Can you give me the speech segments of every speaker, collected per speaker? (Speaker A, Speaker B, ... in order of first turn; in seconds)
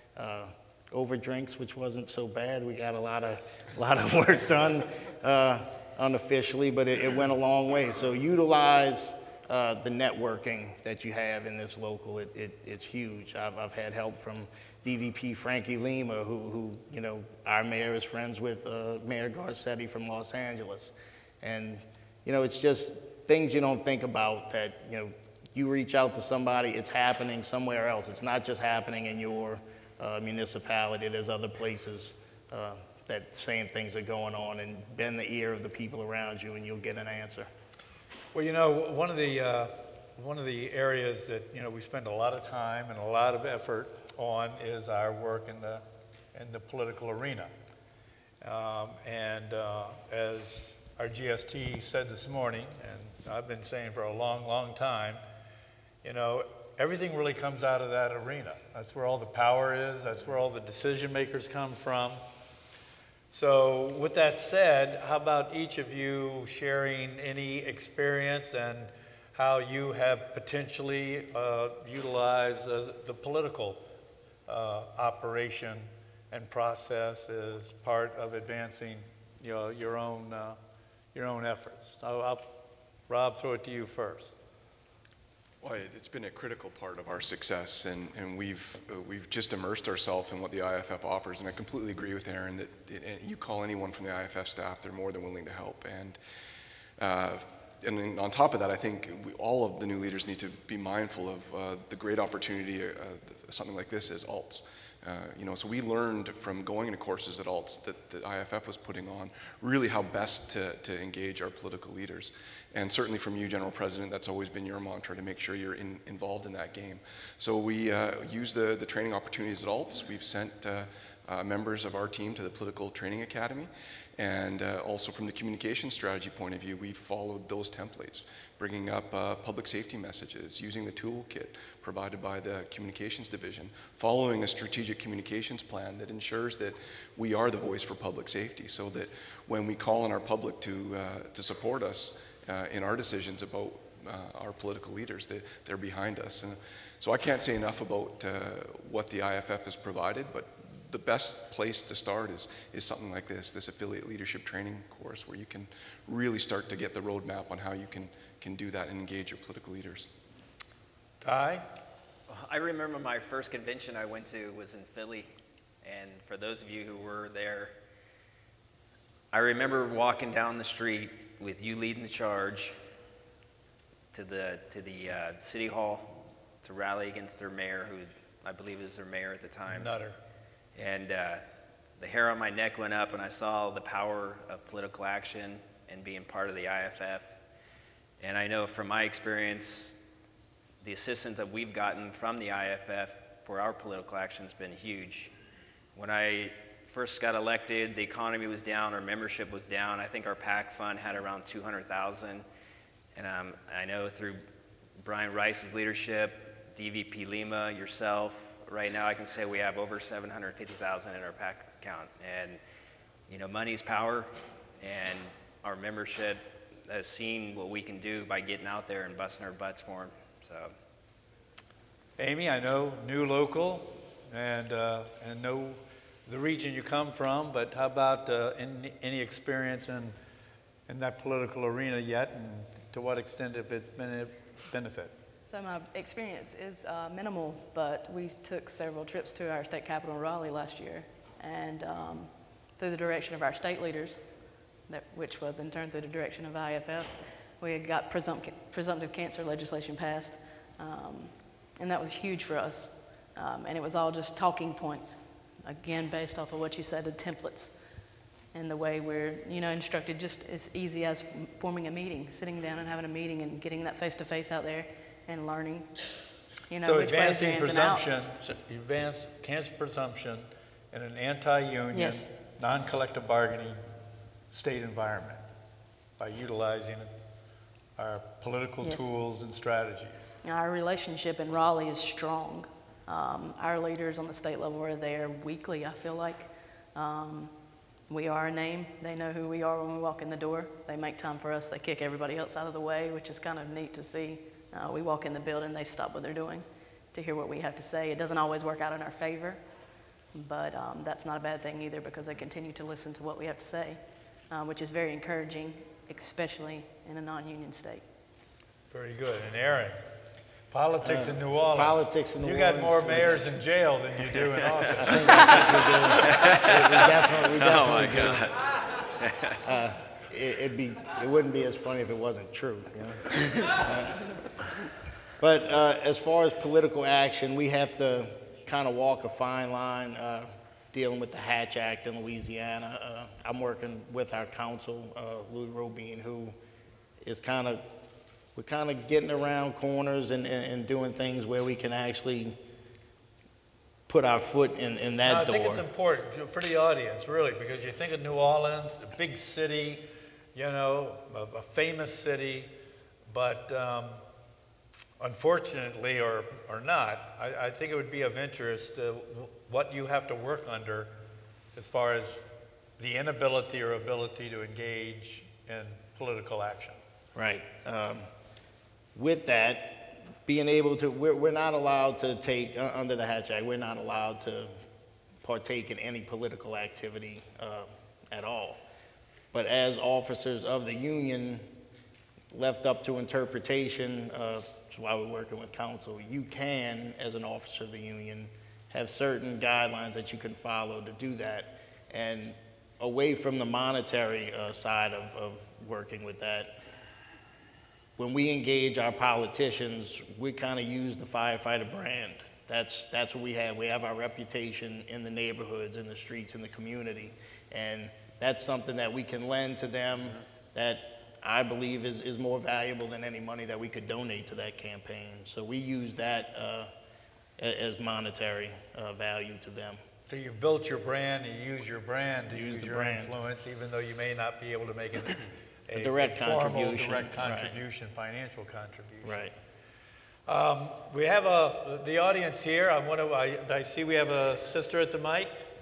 Speaker A: 0.2-37.5, 311.0-313.6, 315.0-318.5, 319.6-324.2, 325.4-336.6, 337.2-337.8, 338.6-342.6, 344.1-345.8, 367.4-368.3, 369.1-374.7, 375.4-378.8, 379.5-381.7, 382.5-396.8, 398.2-416.9, 417.6-420.0, 422.5-423.3, 425.9-427.8, 429.2-429.5
Speaker B: 38.3-45.8, 46.3-47.5, 48.4-55.2, 56.0-62.2, 63.3-73.8, 74.5-80.6, 81.1-84.3, 161.2-161.6, 179.7-180.2, 222.2-230.2, 230.9-235.1, 266.8-273.8, 274.5-275.4, 276.2-277.1, 278.0-280.3, 308.9-310.0, 310.7-316.4, 345.2-352.7, 353.3-354.2, 355.2-361.1, 361.8-362.4, 363.0-367.0, 420.3-429.5, 430.5-435.5
Speaker C: 85.6-96.2, 97.0-160.1
Speaker D: 162.3-165.3, 165.8-167.8, 169.3-172.8, 174.1-179.9, 180.8-181.4, 182.0-187.4, 188.2-190.0, 190.8-195.3, 195.9-202.5, 203.2-204.4, 205.0-212.6, 213.3-220.7, 316.3-319.6
Speaker E: 235.5-244.2, 244.9-257.8, 258.5-265.9, 266.7-268.1, 271.9-272.3, 278.8-279.1, 280.4-287.5, 288.1-299.6, 300.3-308.0